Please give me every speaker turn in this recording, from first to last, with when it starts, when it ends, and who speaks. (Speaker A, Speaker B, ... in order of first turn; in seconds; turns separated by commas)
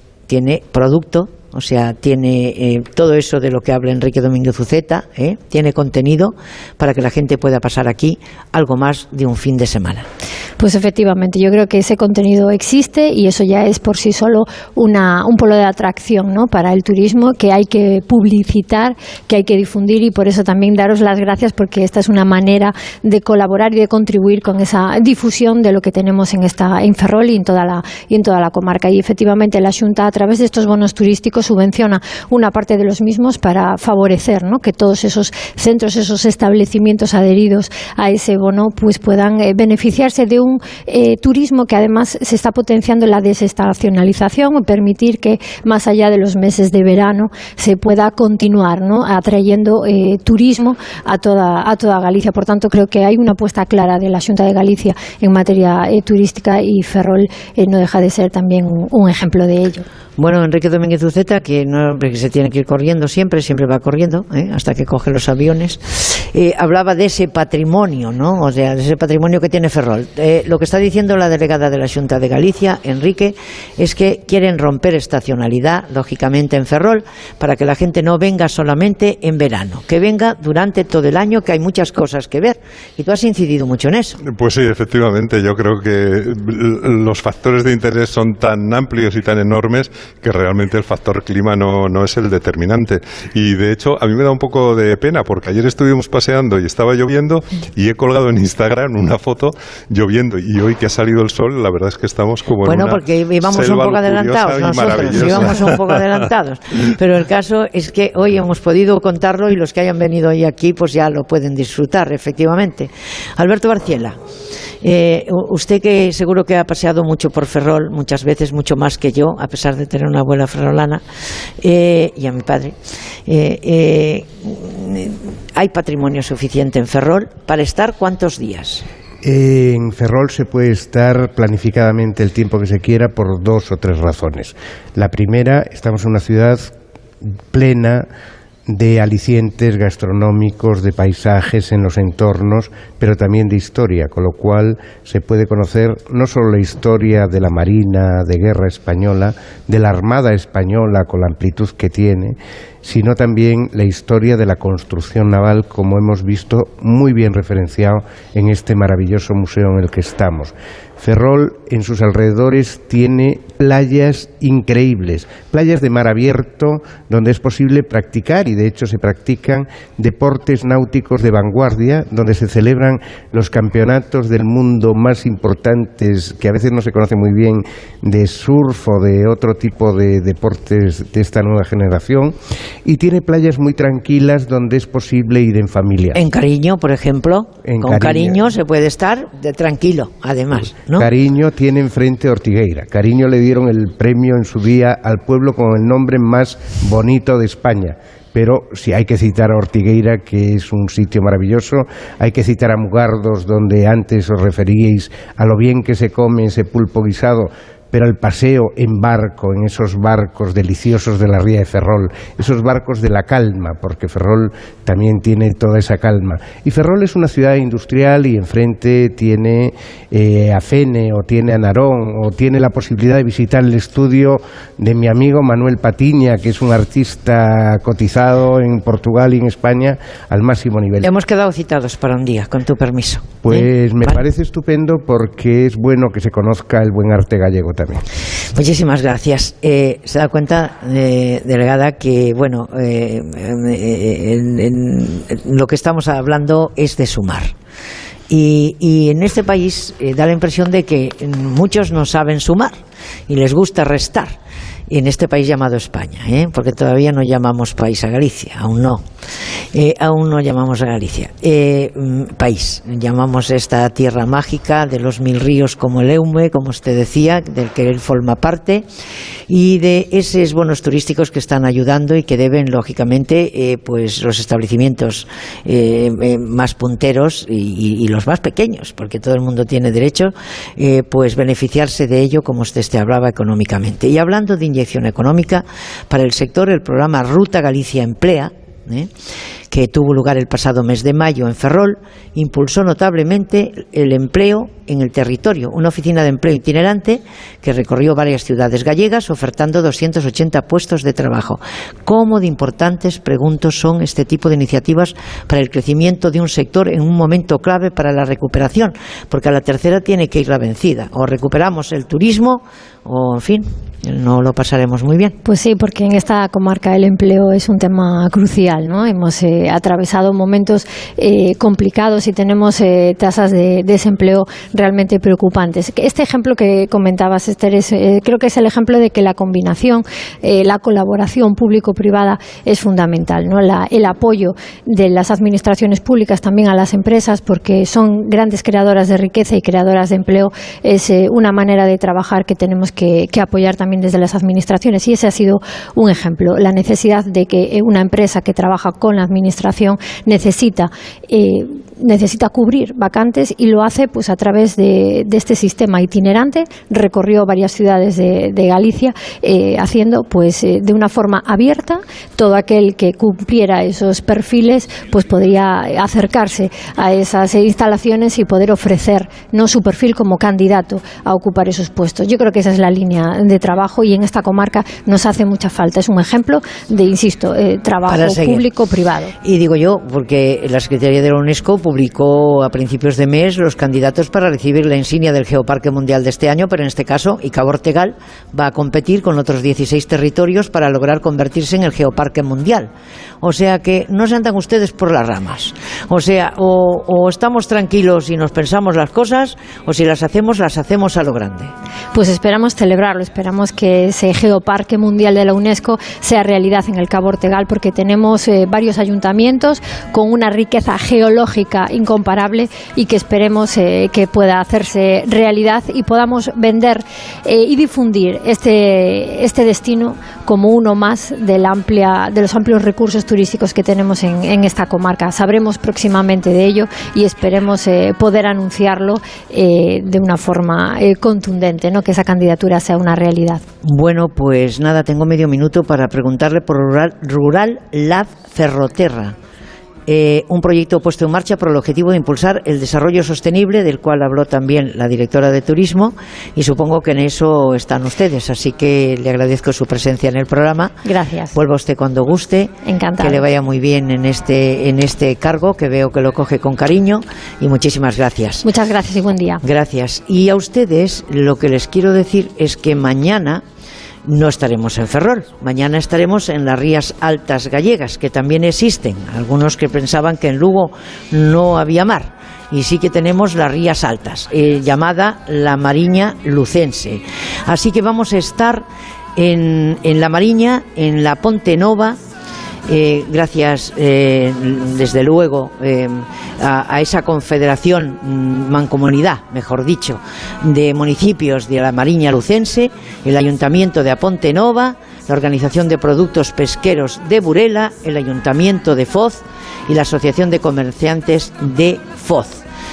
Speaker A: 0.3-10.1, Speaker B: 10.6-59.8, Speaker A: 60.2-84.2, Speaker C: 84.2-106.2, Speaker A: 102.6-114.2, Speaker A: 114.8-121.0, Speaker A: 121.6-122.7, Speaker A: 123.3-128.8, Speaker D: 129.2-136.7, Speaker D: 137.2-138.1, Speaker D: 138.7-182.3, Speaker D: 182.8-186.2, Speaker A: 186.1-191.1, Speaker D: 187.6-188.5, Speaker D: 190.9-231.1, Speaker A: 231.0-234.2, Speaker D: 233.4-238.0, Speaker A: 238.5-247.5, Speaker A: 248.3-252.8, Speaker A: 253.3-254.3, Speaker A: 254.9-259.0, Speaker A: 259.7-268.8, Speaker A: 269.5-289.1, Speaker A: 289.7-315.4, Speaker B: 315.4-379.3, Speaker A: 378.1-378.6, Speaker A: 379.4-392.9, Speaker A: 393.4-401.7, Speaker B: 402.1-433.6, Speaker A: 433.8-439.3, Speaker A: 440.1-450.9, Speaker B: 451.0-451.5, Speaker A: 451.5-458.6, Speaker B: 452.8-453.4, Speaker B: 458.6-459.6, Speaker A: 459.6-463.6, Speaker A: 464.2-478.8, Speaker A: 479.4-482.2, Speaker A: 482.9-502.6